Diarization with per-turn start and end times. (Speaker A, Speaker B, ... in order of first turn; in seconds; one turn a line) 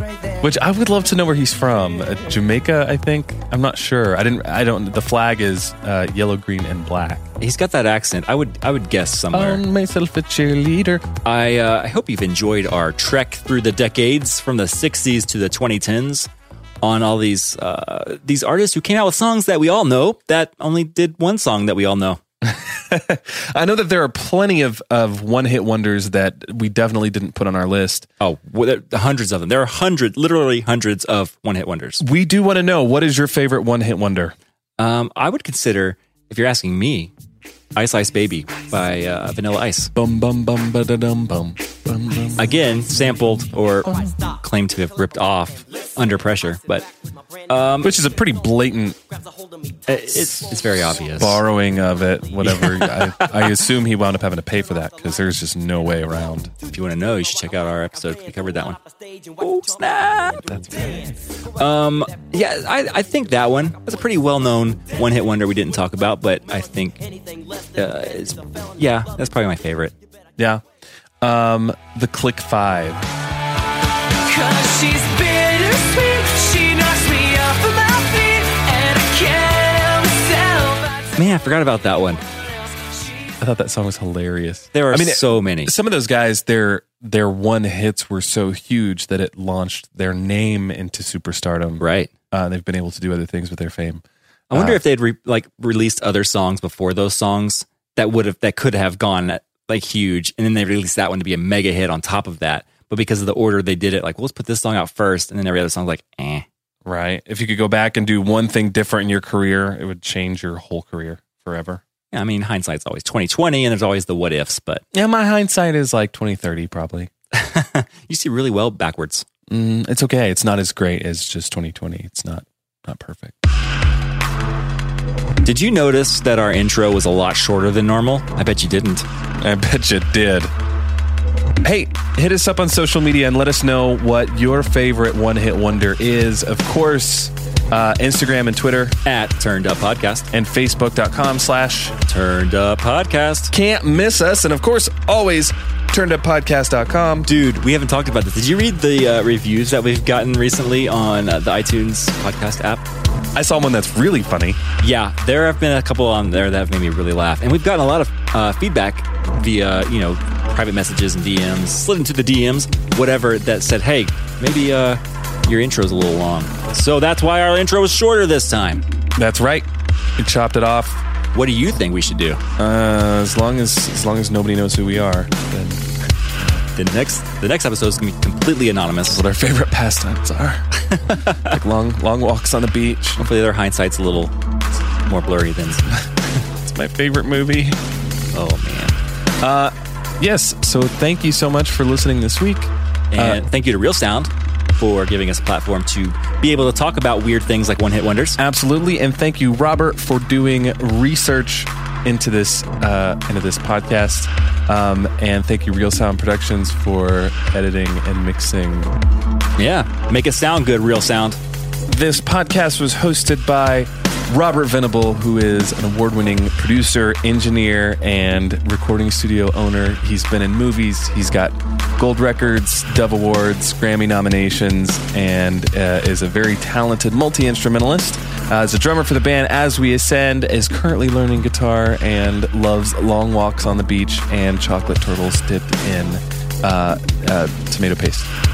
Speaker A: 0.4-7.3
Speaker B: 7.4-9.6
Speaker A: 9.3-11.0
Speaker B: 11.2-16.3
Speaker B: 16.8-22.2
Speaker A: 22.4-28.1
Speaker B: 28.2-32.0
Speaker A: 32.0-34.3
Speaker B: 34.8-37.1
Speaker B: 37.7-39.9
Speaker A: 39.9-42.4
Speaker B: 42.4-46.9
Speaker B: 47.5-48.0
Speaker A: 47.8-49.0
Speaker B: 49.9-51.4
Speaker A: 50.1-56.5
Speaker B: 52.4-53.6
Speaker B: 56.7-58.8
Speaker B: 59.4-60.9
Speaker A: 60.4-61.1
Speaker B: 61.5-67.2
Speaker B: 67.7-69.9
Speaker A: 70.4-70.6
Speaker A: 71.2-73.0
Speaker C: 74.2-81.0
Speaker B: 81.2-82.2
Speaker A: 83.4-94.8
Speaker B: 84.7-85.7
Speaker B: 91.8-92.1
Speaker B: 94.5-106.5
Speaker A: 106.8-111.8
Speaker B: 112.1-114.8
Speaker A: 114.9-117.1
Speaker B: 117.3-119.3
Speaker A: 119.5-123.3
Speaker B: 125.4-129.1
Speaker A: 129.4-130.5
Speaker A: 131.6-138.9
Speaker B: 139.0-140.3
Speaker A: 140.3-141.9
Speaker B: 142.1-143.5
Speaker A: 143.5-147.3
Speaker B: 147.2-152.8
Speaker A: 153.3-154.6
Speaker B: 154.8-168.8
Speaker A: 169.2-169.7
Speaker A: 170.2-171.0
Speaker B: 171.3-172.4
Speaker A: 172.6-176.6
Speaker B: 176.7-179.2
Speaker A: 179.1-180.7
Speaker B: 180.8-181.6
Speaker A: 181.4-183.2
Speaker B: 183.2-184.3
Speaker B: 184.9-185.9
Speaker A: 186.5-187.8
Speaker B: 188.3-189.0
Speaker A: 189.4-193.4
Speaker B: 193.1-198.4
Speaker A: 198.4-208.9
Speaker B: 209.6-211.4
Speaker A: 211.8-238.3